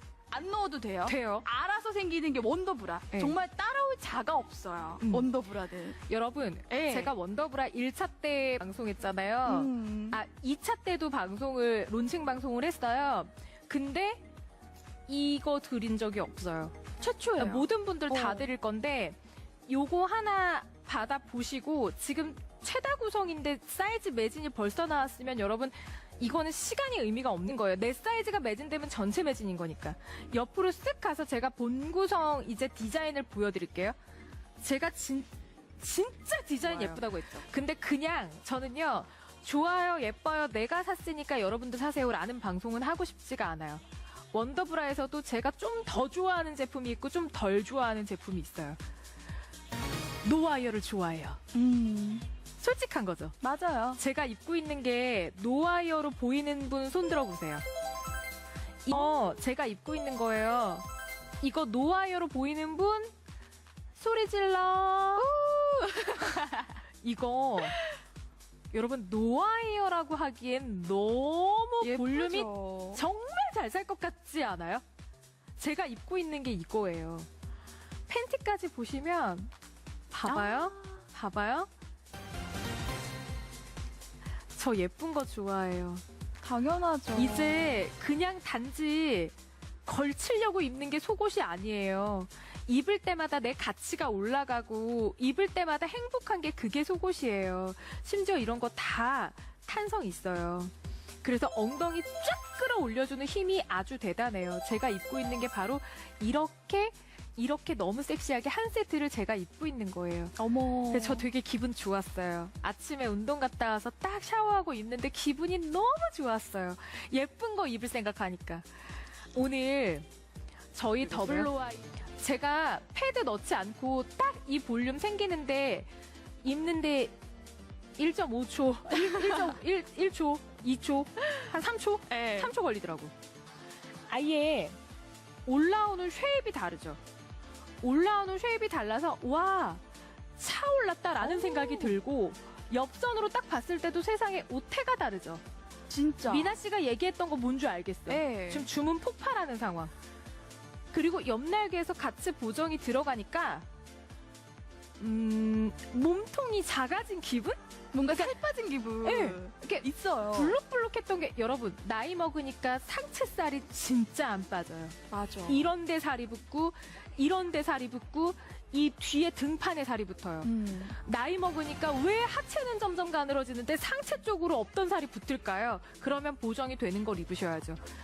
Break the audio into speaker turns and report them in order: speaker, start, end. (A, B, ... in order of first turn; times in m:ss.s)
0:00.3-0:06.0 A
0:01.1-0:01.4 B
0:05.0-0:05.3 B
0:06.1-0:14.2 B
0:06.7-0:07.1 A
0:09.4-0:10.2 A
0:15.1-0:34.0 B
0:17.0-0:18.5 A
0:34.6-0:48.8 B
0:36.7-0:37.0 A
0:50.2-0:51.4 B
0:51.5-0:52.3 A
0:52.6-0:53.4 B
0:53.4-0:54.0 A
0:54.0-0:57.6 B
0:58.8-1:00.9 B
1:01.4-1:03.1 B
1:04.0-1:05.3 B
1:05.2-1:06.7 A
1:07.0-1:07.8 B
1:08.7-1:14.8 B
1:11.8-1:13.0 A
1:15.6-1:17.3 B
1:18.1-1:19.5 B
1:20.1-1:21.7 B
1:20.3-1:21.0 A
1:24.6-1:26.0 B
1:26.4-1:27.8 A
1:27.2-1:29.3 B
1:29.9-1:50.4 B
1:50.4-1:51.3 A
1:50.9-2:00.1 B
2:00.7-2:05.9 B
2:01.0-2:01.5 A
2:06.4-2:07.1 B
2:08.0-2:13.1 B
2:09.0-2:09.6 A
2:12.1-2:12.5 A
2:14.1-2:14.8 B
2:15.5-2:17.0 B
2:17.8-2:19.8 B
2:20.4-2:25.4 B
2:21.2-2:22.0 A
2:25.9-2:26.6 A
2:26.3-2:29.9 B
2:28.1-2:28.7 A
2:30.9-2:33.7 B
2:35.0-2:37.6 B
2:37.9-2:40.6 A
2:38.1-2:38.3 B
2:39.0-2:57.8 B
2:45.1-2:45.7 A
2:50.4-2:51.0 A